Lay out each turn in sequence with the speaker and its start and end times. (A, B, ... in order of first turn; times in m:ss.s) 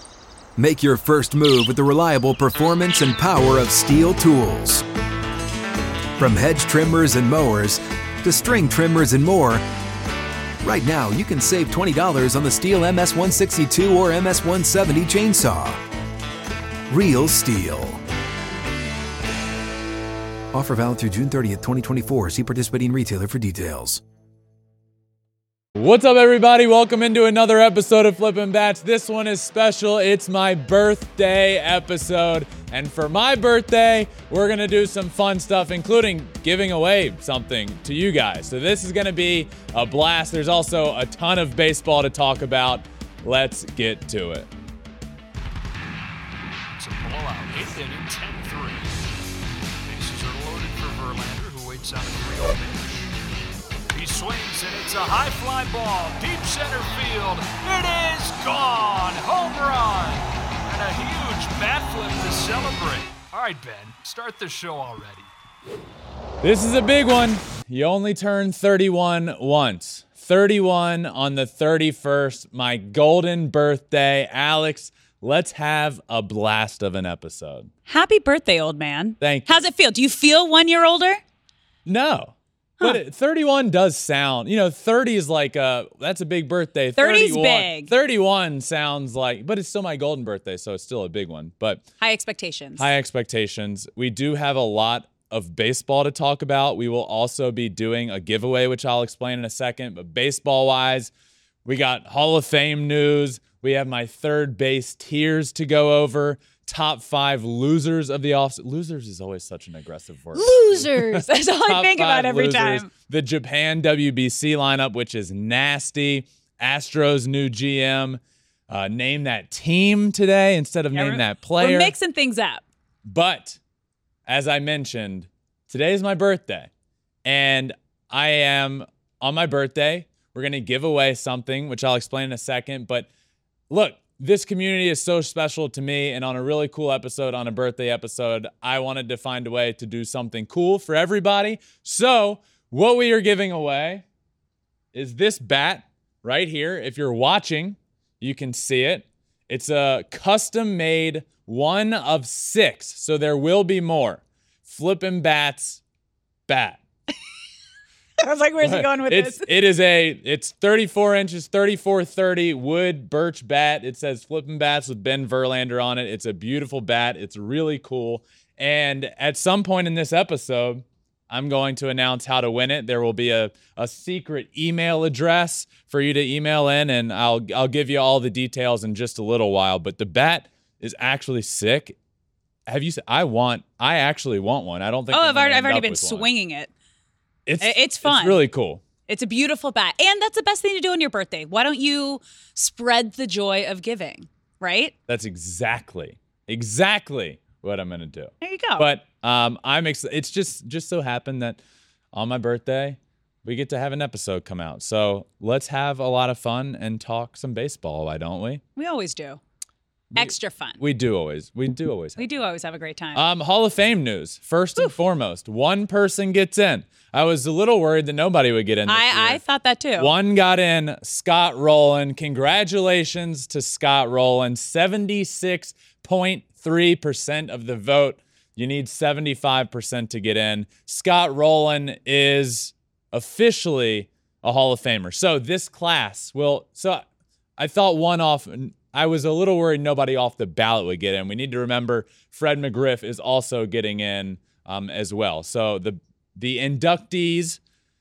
0:00.6-0:04.8 A
0:06.2-0:09.6 A
0:10.6-0:15.8 A
0:16.9-0:18.0 A
0:20.5-0:24.0 A
0:25.8-0:44.5 B
0:46.8-0:49.1 C
0:49.9-0:53.1 C
0:53.9-1:05.3 C
1:06.4-1:17.7 B
1:17.9-1:21.2 D
1:19.2-1:19.7 B
1:21.9-1:31.8 B
1:27.0-1:27.9 D
1:32.0-1:32.9 D
1:32.8-1:41.1 B
1:41.6-2:01.9 B
1:50.3-1:52.9 D
2:00.9-2:02.6 D
2:03.0-2:03.6 B
2:04.3-2:06.7 B
2:07.2-2:13.1 B
2:13.7-2:24.0 B
2:24.9-2:35.8 B
2:36.5-2:36.8 B
2:38.2-2:39.5 D
2:38.6-3:02.0 B
3:02.7-3:06.3 B
3:05.1-3:06.7 D
3:07.5-3:08.8 B
3:07.6-3:08.4 D
3:09.1-3:14.9 D
3:15.1-3:21.6 B
3:18.4-3:18.9 D
3:22.1-3:28.6 B
3:28.8-3:29.4 D
3:30.1-3:32.2 B
3:30.2-3:30.8 D
3:32.2-3:33.2 D
3:33.2-3:39.4 B
3:38.9-3:40.1 D
3:40.0-3:57.0 B
3:57.6-4:07.6 B